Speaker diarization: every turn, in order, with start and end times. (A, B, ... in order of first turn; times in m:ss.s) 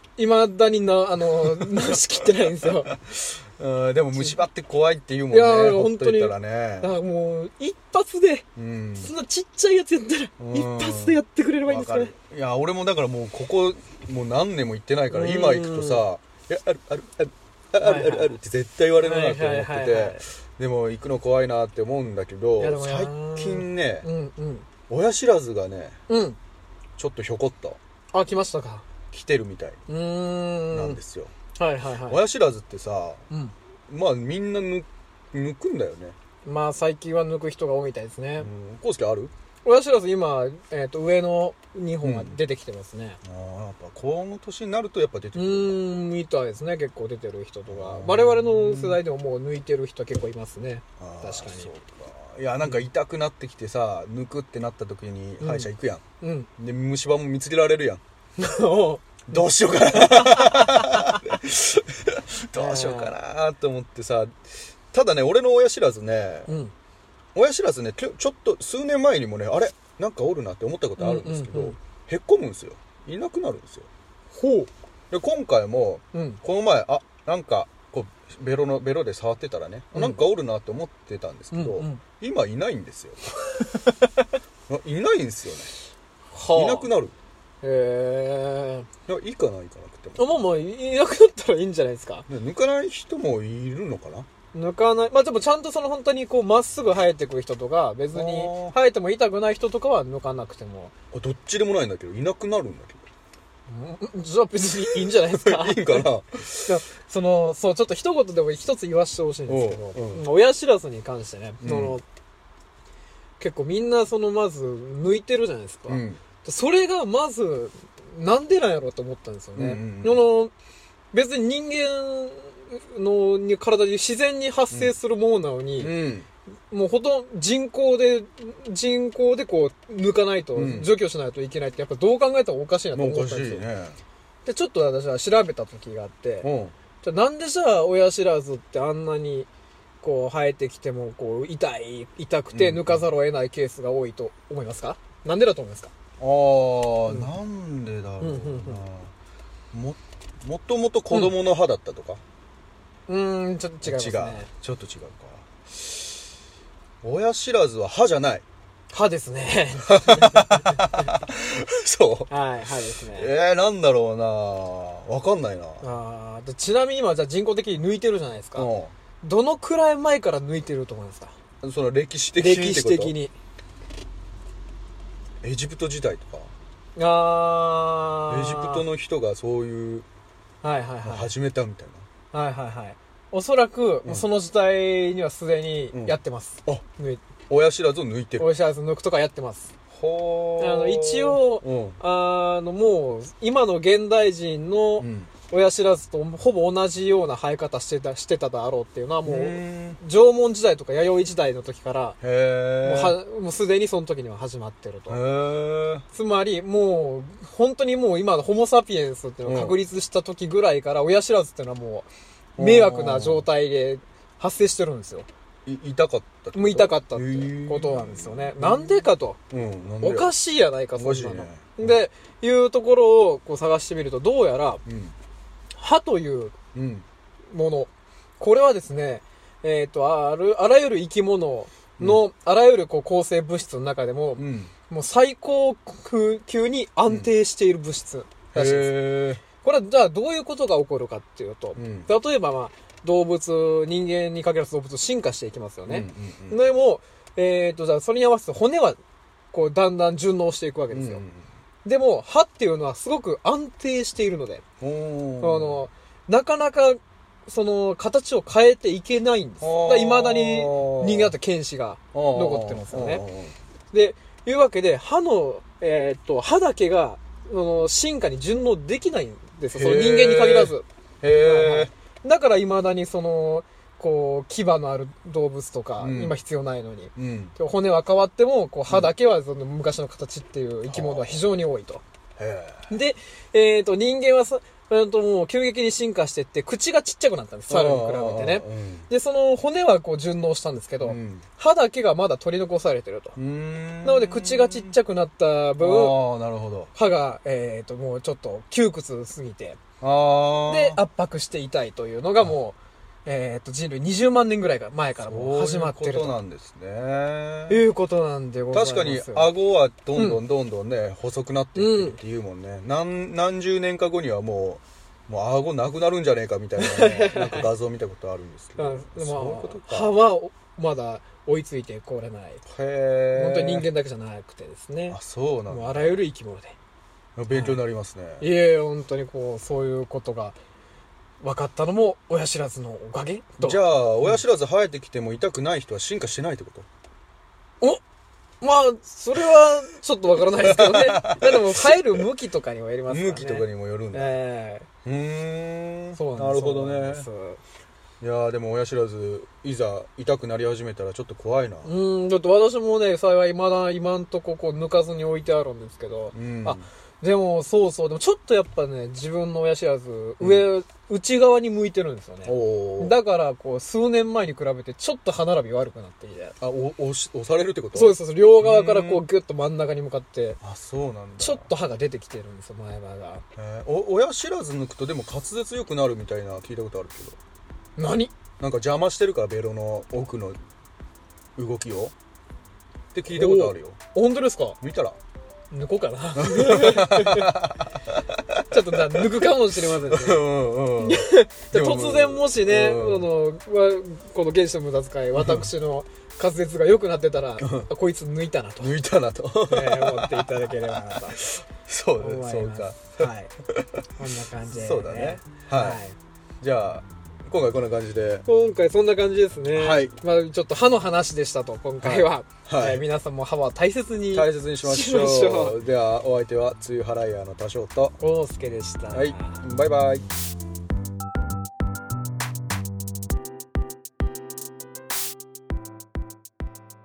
0:00.2-0:03.0 A
0:01.4-0:02.0 B
0:02.9-0:06.9 B
0:05.3-0:08.4 A
0:08.6-0:09.1 B
0:09.0-0:12.1 A
0:10.4-0:24.1 B
0:15.1-0:16.0 A
0:17.8-0:18.4 A
0:19.0-0:20.2 A
0:22.6-0:24.6 A
0:24.9-0:26.0 B
0:26.1-0:26.4 A
0:27.0-0:27.8 B
0:28.1-0:28.8 A
0:29.1-0:29.8 B
0:29.9-0:31.0 A
0:30.7-0:31.3 B
0:31.6-0:32.2 A
0:32.0-0:33.2 B
0:33.9-0:36.2 B
0:36.4-0:38.5 A
0:38.4-0:39.3 B
0:39.6-0:43.2 A
0:42.0-0:42.4 B
0:43.2-0:45.8 B
0:45.3-0:51.7 A
0:47.7-0:49.0 B
0:51.0-0:56.0 B
0:55.4-0:55.7 A
0:56.2-0:56.5 A
0:56.6-0:58.0 B
0:58.4-0:59.3 A
0:59.3-1:04.4 B
0:59.9-1:01.2 A
1:02.5-1:03.1 A
1:04.9-1:06.5 B
1:06.5-1:06.7 A
1:07.3-1:13.9 B
1:11.0-1:11.8 A
1:14.3-1:14.7 A
1:15.1-1:23.2 B
1:16.1-1:16.4 A
1:19.9-1:20.2 A
1:21.5-1:22.0 A
1:23.6-1:24.1 A
1:24.7-1:25.7 B
1:26.3-1:26.9 A
1:26.5-1:27.1 B
1:27.6-1:28.8 A
1:29.1-1:30.5 B
1:30.2-1:32.3 A
1:32.3-1:34.3 B
1:34.5-1:40.9 A
1:38.1-1:38.8 B
1:41.1-1:43.0 B
1:43.7-1:46.1 A
1:45.1-1:46.8 B
1:46.6-1:52.0 A
1:49.5-1:50.2 B
1:51.6-1:52.0 B
1:53.4-2:00.5 A
1:55.9-1:56.2 B
1:59.6-2:00.3 B
2:01.1-2:05.9 A
2:05.8-2:06.3 B
2:06.7-2:13.6 A
2:10.6-2:10.9 B
2:12.9-2:14.0 B
2:14.4-2:16.5 A
2:16.4-2:16.7 B
2:17.0-2:19.5 A
2:20.0-2:25.9 A
2:22.5-2:23.0 B
2:26.2-2:29.1 B
2:28.2-2:28.8 A
2:29.7-2:32.2 B
2:33.1-2:34.5 A
2:33.8-2:35.9 B
2:37.0-2:38.4 B
2:38.9-2:41.1 A
2:39.9-2:42.3 B
2:42.3-2:43.3 A
2:43.1-2:45.9 B
2:45.8-2:48.7 A
2:48.6-2:48.9 B
2:49.2-2:51.3 A
2:51.6-2:53.2 B
2:52.4-2:53.3 A
2:55.4-2:56.5 B
2:57.0-2:58.8 A
2:58.3-3:00.1 B
3:00.6-3:01.3 A
3:01.0-3:02.0 B
3:02.3-3:07.2 A
3:05.9-3:06.8 B
3:07.5-3:08.5 B
3:08.4-3:09.7 A
3:09.9-3:12.0 B
3:10.6-3:22.2 A
3:15.0-3:15.3 B
3:19.2-3:20.0 B
3:22.2-3:23.2 B
3:22.8-3:25.2 A
3:25.1-3:26.0 B
3:26.1-3:35.3 A
3:29.4-3:29.8 B
3:32.6-3:33.5 B
3:35.7-3:40.3 B
3:36.5-3:39.4 A
3:40.0-3:44.8 A
3:40.9-3:42.0 B
3:44.8-3:45.2 B
3:45.7-3:46.6 A
3:46.7-3:47.0 B
3:47.5-4:09.0 A
3:54.4-3:54.7 B
3:57.1-3:57.3 B
3:58.5-3:59.4 B
4:01.8-4:02.1 B
4:05.9-4:06.7 B
4:09.5-4:11.2 A
4:10.9-4:11.5 B
4:11.8-4:14.6 A
4:14.8-4:15.9 B
4:15.4-4:23.2 A
4:19.6-4:21.3 B
4:22.1-4:23.6 B
4:23.9-4:42.0 A
4:29.7-4:31.9 B
4:36.0-4:36.4 B
4:37.2-4:37.5 B
4:40.9-4:41.4 B
4:42.4-4:42.9 B
4:42.9-4:53.4 A
4:47.7-4:49.1 B
4:51.0-4:51.4 B
4:53.4-4:55.0 B
4:54.0-4:56.2 A
4:55.8-4:56.9 B
4:56.9-4:59.8 A
5:00.0-5:01.0 B
5:00.7-5:06.4 A
5:05.2-5:07.8 B
5:07.7-5:09.5 A
5:08.7-5:20.2 B
5:10.1-5:10.4 A
5:11.8-5:12.2 A
5:16.8-5:17.7 A
5:18.8-5:22.6 A
5:22.6-5:23.9 B
5:23.3-5:25.2 A
5:25.1-5:26.2 B
5:25.7-5:26.8 A
5:27.4-5:28.5 B
5:27.5-5:27.8 A
5:28.4-5:30.6 A
5:31.4-5:34.4 A
5:33.6-5:36.9 B
5:38.6-5:44.9 A
5:40.6-5:42.2 B
5:43.1-5:44.3 B
5:45.0-5:47.3 B
5:46.2-5:47.6 A
5:48.2-5:52.0 B
5:51.8-6:06.6 A
5:56.3-5:56.9 B
6:00.4-6:00.7 B
6:02.4-6:03.2 B
6:06.6-6:09.2 B
6:07.9-6:10.6 A
6:10.6-6:11.7 B
6:11.4-6:13.4 A
6:13.6-6:17.4 B
6:18.0-6:18.3 A
6:18.6-6:20.6 B
6:21.6-6:22.1 B
6:23.1-6:24.0 B
6:23.3-6:24.8 A
6:24.8-6:25.2 B
6:25.7-6:27.5 A
6:26.4-6:33.3 B
6:28.7-6:30.4 A
6:31.0-6:39.0 A
6:35.3-6:35.7 B
6:37.6-6:37.9 B
6:38.8-6:44.0 B
6:39.7-6:41.5 A
6:42.2-6:43.5 A
6:44.2-6:46.2 A
6:44.6-6:46.0 B
6:46.6-6:48.4 B
6:48.4-6:55.8 A
6:49.7-6:50.2 B
6:52.0-6:53.0 B
6:54.3-6:58.2 B
6:58.2-6:59.6 A
6:59.1-7:00.2 B